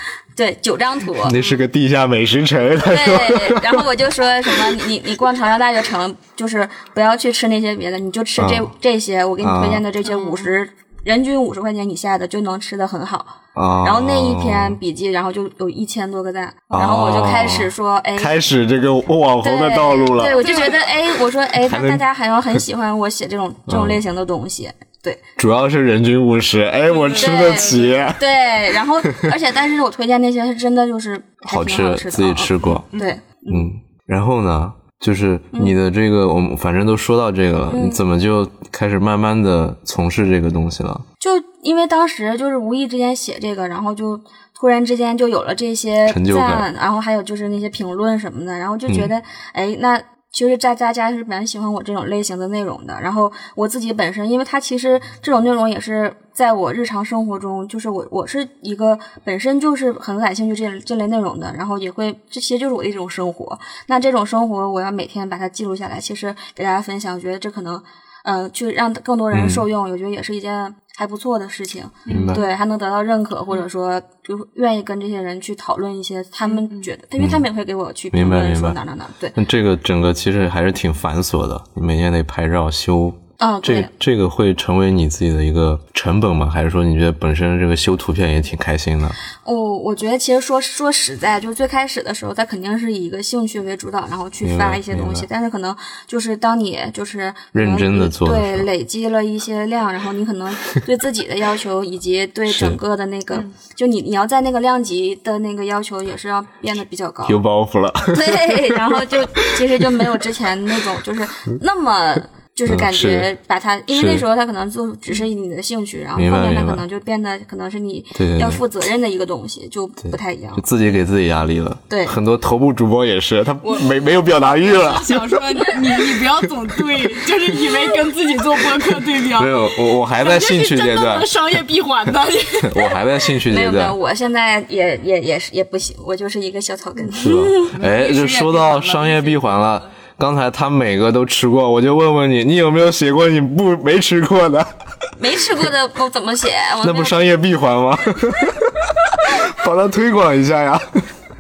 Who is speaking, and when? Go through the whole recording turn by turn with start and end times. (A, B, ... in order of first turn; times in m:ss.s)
0:00.4-0:01.4 A
0:01.2-0:03.9 B
0:01.4-0:01.6 C
0:02.8-0:18.4 A
0:08.4-0:08.7 B
0:09.4-0:09.8 B
0:10.0-0:10.6 C
0:13.6-0:14.8 B
0:16.7-0:20.5 B
0:19.4-0:25.2 A
0:20.4-0:21.0 C
0:21.6-0:22.0 B
0:23.7-0:24.0 B
0:25.4-0:28.2 B
0:26.9-0:28.0 C
0:27.2-0:33.7 A
0:29.0-0:29.3 B
0:31.5-0:32.9 B
0:32.9-0:33.2 C
0:33.5-0:41.0 B
0:37.7-0:38.0 A
0:41.2-1:19.4 A
0:46.1-0:46.7 B
1:09.3-1:09.6 B
1:12.1-1:12.5 C
1:12.1-1:12.4 B
1:16.4-1:16.9 C
1:17.2-1:17.4 B
1:18.1-1:18.8 B
1:19.4-1:29.2 B
1:23.4-1:23.9 A
1:29.4-1:47.4 A
1:34.4-1:35.3 B
1:37.5-1:38.7 B
1:42.5-1:42.8 B
1:47.2-1:50.0 B
1:48.1-2:00.6 A
1:52.7-1:53.3 B
1:53.9-1:54.2 B
1:56.2-1:56.8 B
1:58.2-1:58.6 B
2:00.0-2:05.7 B
2:01.9-2:02.2 A
2:03.6-2:13.0 C
2:09.3-2:11.3 B
2:12.6-2:14.0 B
2:13.5-2:17.7 A
2:17.2-2:24.7 B
2:17.7-2:19.8 C
2:25.2-2:27.3 A
2:26.8-2:31.0 B